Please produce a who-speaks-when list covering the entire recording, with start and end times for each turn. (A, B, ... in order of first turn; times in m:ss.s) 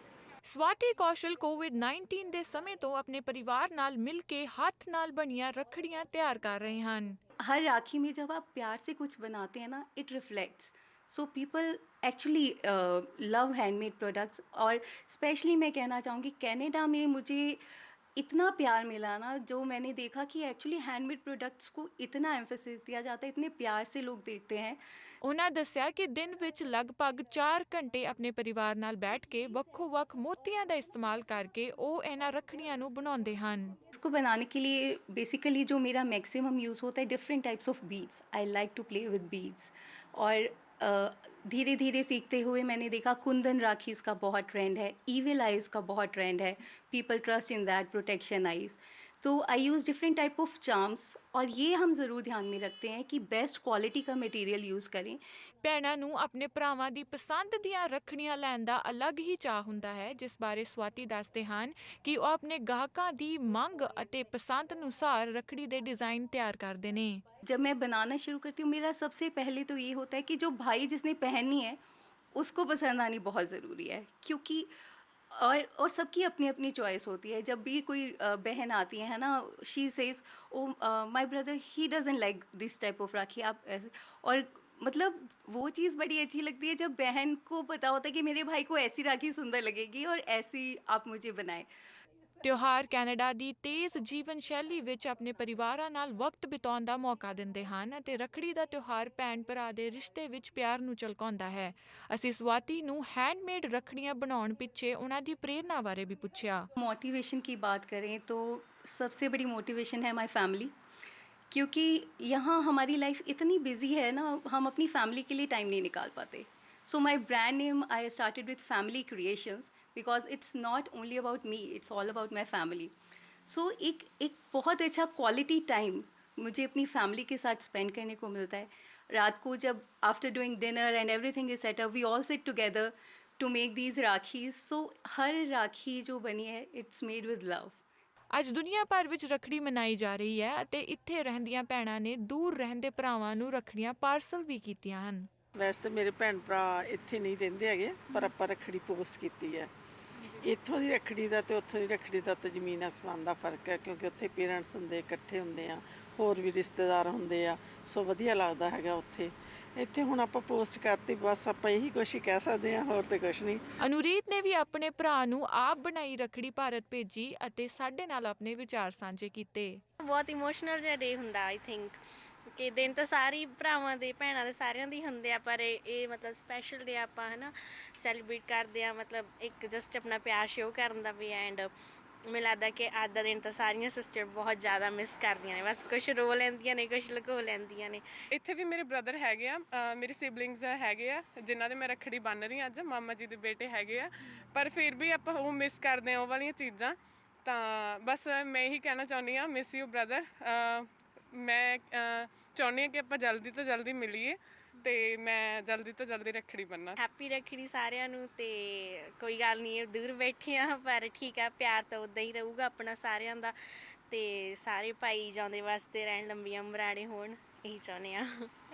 0:00.4-0:07.2 A
0:07.4-0:17.6 B
0:18.2-0:24.8 B
0:25.2-0:33.8 A
0:33.9-0:55.2 B
0:55.6-1:07.2 A
1:07.4-1:11.8 B
1:12.3-1:14.7 B
1:15.3-1:31.7 B
1:32.4-1:46.7 A
1:46.8-1:50.7 B
1:51.5-2:02.9 B
2:03.4-2:17.8 B
2:18.3-2:25.3 A
2:25.6-2:29.7 C
2:30.4-2:43.6 C
2:43.8-2:49.8 A
2:50.0-2:52.0 D
2:52.5-3:01.7 D
3:02.3-3:08.0 D
3:08.3-3:27.0 E
3:27.0-3:33.5 D
3:34.1-3:38.5 D